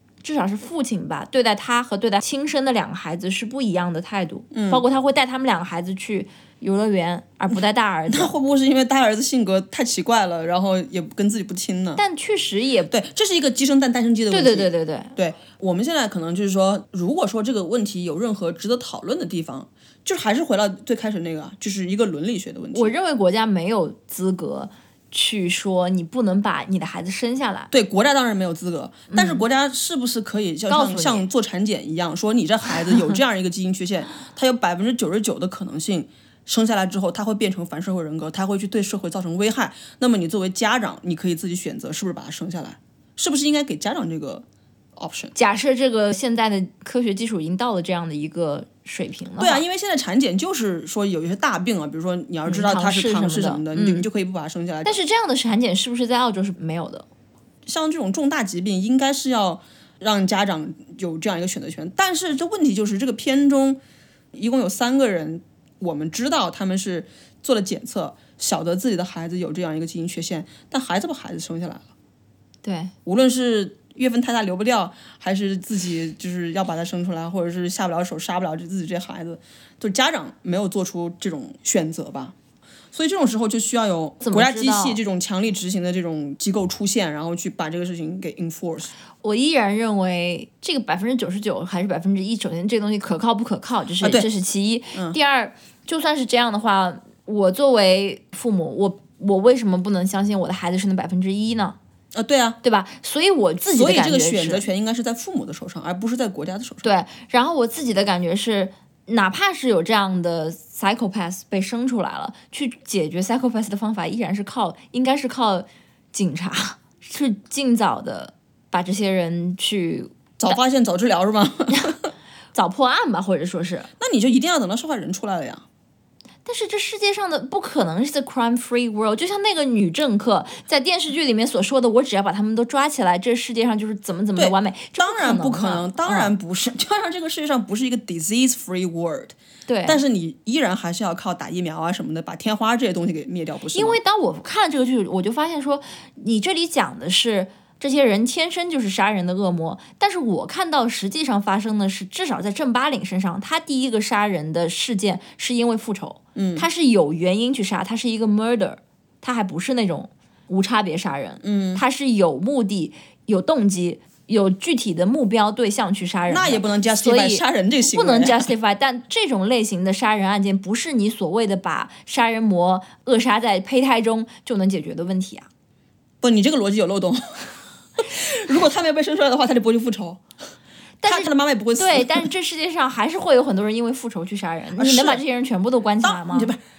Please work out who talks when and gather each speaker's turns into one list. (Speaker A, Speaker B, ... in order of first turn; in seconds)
Speaker A: 0.2-8.3, 12.0-12.9, 14.3-15.1, 22.7-27.7, 29.1-29.4, 30.7-31.3, 45.4-49.6, 52.5-54.1, 54.9-57.1, 72.6-72.9, 84.2-85.0, 89.2-101.8, 102.6-104.7, 106.8-120.6, 122.5-123.9, 126.5-136.3, 139.7-140.0, 143.7-175.5, 181.0-186.5
Speaker B: 4.5-4.8, 8.1-12.0, 12.9-22.9, 27.7-44.5, 45.0-45.3, 49.4-55.0, 57.7-63.8, 64.3-71.8, 73.0-82.3, 82.9-88.9, 94.0-94.3, 102.1-102.6, 103.7-106.9, 120.4-122.1, 124.0-125.7, 134.4-139.3, 139.8-144.0, 156.3-156.7, 161.4-161.8, 166.3-168.5, 176.2-180.2, 181.1-182.3, 184.8-185.2, 186.0-186.6